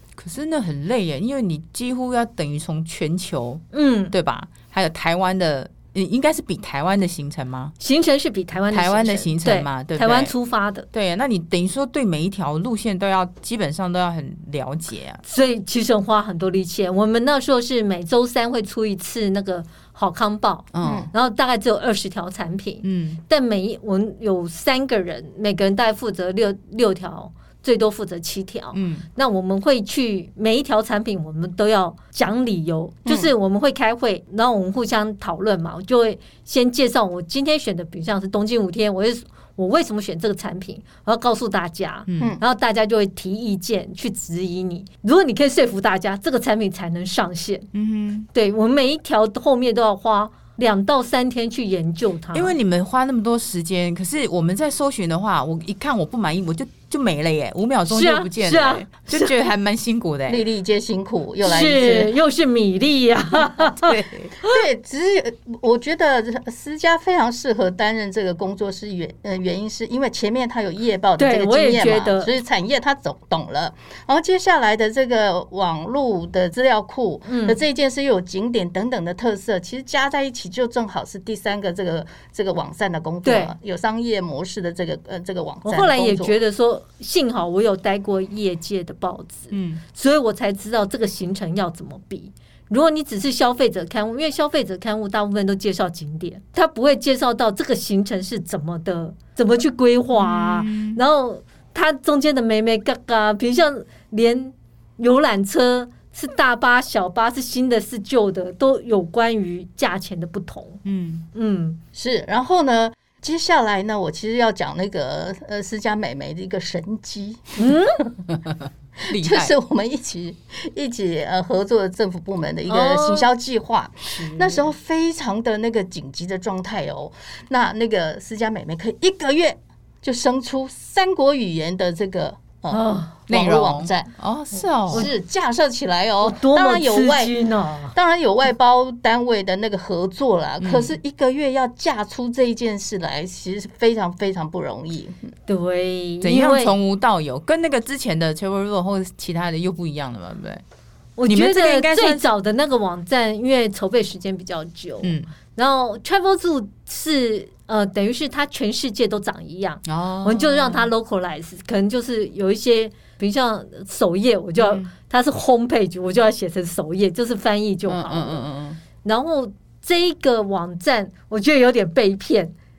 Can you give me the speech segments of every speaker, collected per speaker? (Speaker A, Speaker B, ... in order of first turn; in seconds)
Speaker A: 0.2-7.7, 8.7-10.3, 10.9-15.2, 20.7-21.1, 22.8-23.2, 28.7-29.1, 42.1-42.4, 47.7-48.3, 52.3-60.5, 63.5-64.3, 89.5-89.8, 100.2-101.0, 110.8-111.3, 119.1-119.5, 133.3-135.1, 140.6-141.0, 146.2-150.6, 151.3-152.3, 155.0-155.3, 159.9-160.9, 164.6-164.9, 167.9-168.8
Speaker B: 3.7-4.2, 7.8-10.9, 15.2-47.7, 48.3-52.5, 57.9-59.3, 61.4-64.6, 71.2-72.3, 77.3-77.6, 83.2-83.5, 85.7-110.8, 111.3-111.8, 117.6-118.0, 122.7-123.3, 124.1-124.7, 132.7-133.1, 136.2-137.9, 145.5-146.7, 151.2-168.4, 169.0-172.5
Speaker C: 20.8-21.1, 60.3-62.1, 64.4-86.4, 111.9-117.8, 119.0-134.1, 134.9-137.4, 137.9-145.3